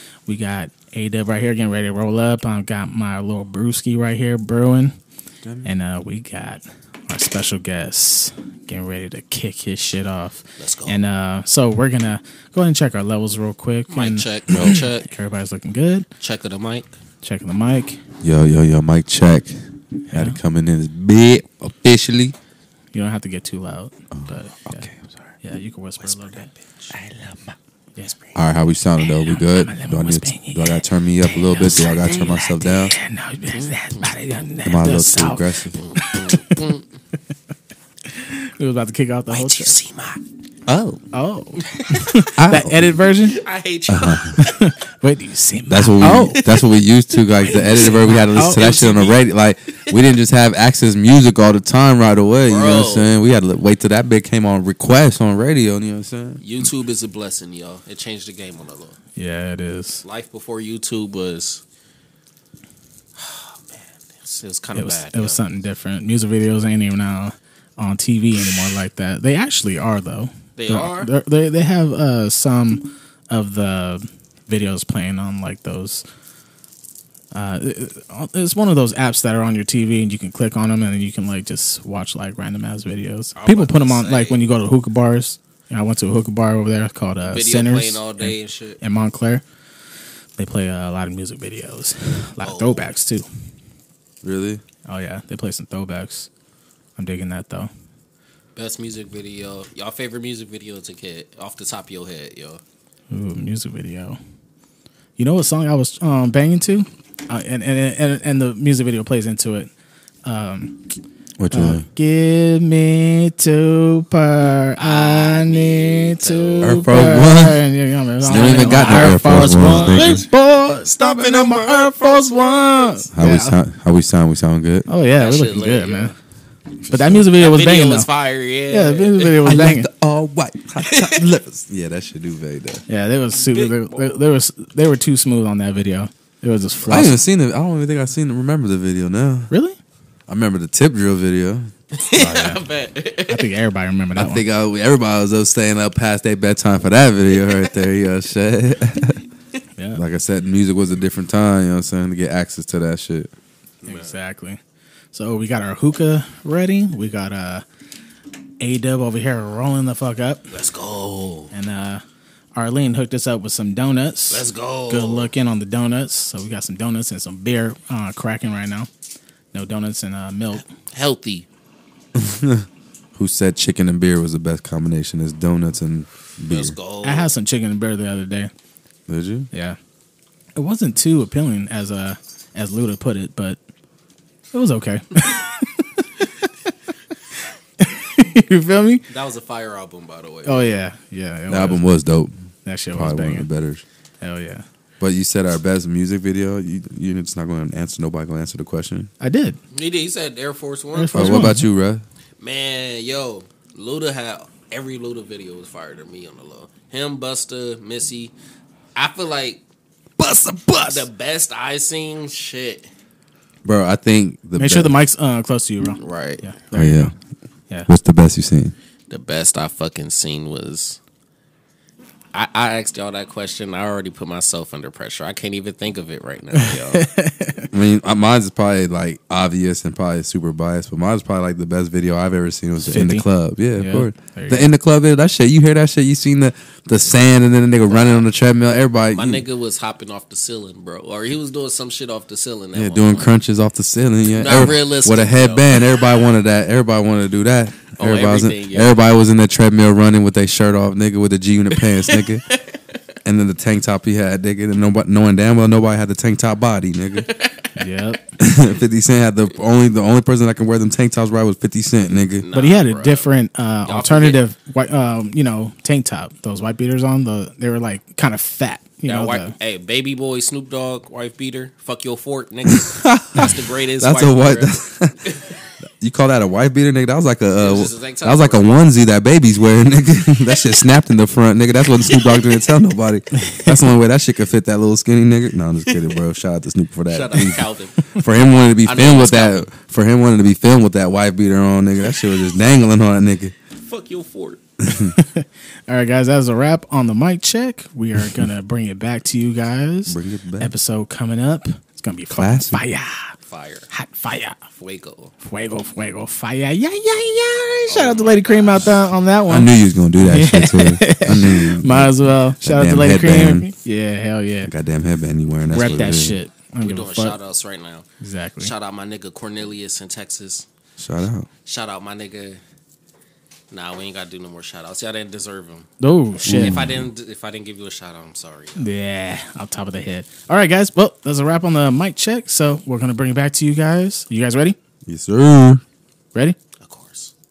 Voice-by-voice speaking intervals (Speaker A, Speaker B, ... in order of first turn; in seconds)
Speaker A: 0.2-4.9, 5.6-16.1, 17.2-18.0, 20.1-20.4, 22.9-24.9, 25.4-26.5, 29.1-36.7, 38.1-39.7, 41.1-43.4, 44.4-46.4, 47.5-48.7, 59.1-60.0, 64.7-76.0, 77.3-89.4, 90.4-93.3, 94.8-96.3, 97.0-97.7, 103.1-104.2, 105.2-109.7, 110.2-110.8, 111.5-123.6, 124.9-126.1, 126.9-128.1, 128.7-129.9, 132.9-137.2, 139.5-139.8, 142.2-142.6, 143.3-144.4, 153.8-154.6, 155.1-157.6, 158.6-160.5, 161.5-162.0, 162.5-168.9, 169.5-170.7, 177.0-178.5, 179.5-179.8, 180.6-183.6, 184.5-186.7, 187.8-189.1, 190.4-191.8, 192.6-193.5, 194.2-194.6, 199.2-199.6, 200.9-201.7, 214.6-217.1, 226.5-227.7, 232.8-234.7, 257.8-258.3, 262.5-269.5, 295.1-303.3, 303.9-304.6, 305.4-314.7, 315.6-317.4, 318.2-318.7, 326.0-326.8, 328.8-334.8
Speaker B: 5.4-5.7, 18.2-19.6, 20.1-22.3, 24.1-25.1, 28.3-32.9, 34.6-35.8, 42.3-42.9, 43.9-44.4, 45.7-56.4, 94.2-94.6, 111.4-111.8, 116.6-117.6, 118.2-120.2, 123.1-124.9, 126.9-127.2, 129.4-132.8, 136.8-139.5, 140.3-141.7, 144.2-149.2, 149.9-153.3, 172.1-176.8, 179.1-179.5, 191.5-192.3, 192.9-193.8, 195.0-199.1, 201.1-202.0, 210.2-211.1, 213.6-215.0, 216.7-217.1, 217.9-218.7, 227.7-239.4, 242.7-252.4, 253.2-257.3, 258.4-262.5, 272.6-275.3, 276.0-293.5, 294.8-295.1, 300.1-300.7, 302.3-302.8, 309.5-313.7, 314.6-316.4, 321.0-321.5, 326.4-327.1, 335.1-335.8
Speaker C: 10.6-11.0, 13.9-15.1, 16.2-16.9, 26.0-27.5, 31.4-32.3, 33.5-34.1, 35.7-36.8, 39.3-41.0, 41.6-42.3, 43.2-44.7, 46.0-46.6, 47.5-49.2, 52.4-53.2, 56.4-59.0, 60.0-61.6, 63.1-65.4, 70.6-71.1, 83.3-84.4, 87.3-88.8, 92.4-92.9, 98.5-102.6, 114.8-116.9, 118.3-123.1, 125.2-126.2, 127.2-129.4, 130.8-131.3, 133.3-134.2, 141.9-143.5, 147.4-147.7, 153.8-154.2, 160.5-161.5, 164.3-165.3, 170.6-171.5, 176.5-177.3, 189.1-190.8, 199.7-201.5, 202.4-208.3, 208.9-209.6, 210.8-212.9, 216.0-216.5, 219.1-221.0, 222.3-227.1, 237.8-238.2, 239.1-243.3, 244.2-246.1, 248.0-249.0, 251.7-252.8, 257.2-257.8, 262.3-263.3, 263.8-264.4, 269.0-274.8, 277.6-278.7, 282.0-282.6, 285.9-286.2, 287.1-288.2, 288.8-289.7, 293.7-294.6, 303.5-303.9, 304.8-305.3, 307.9-309.1, 316.8-318.1, 318.6-320.6, 321.6-322.6, 323.7-325.9, 326.4-328.9, 336.8-337.3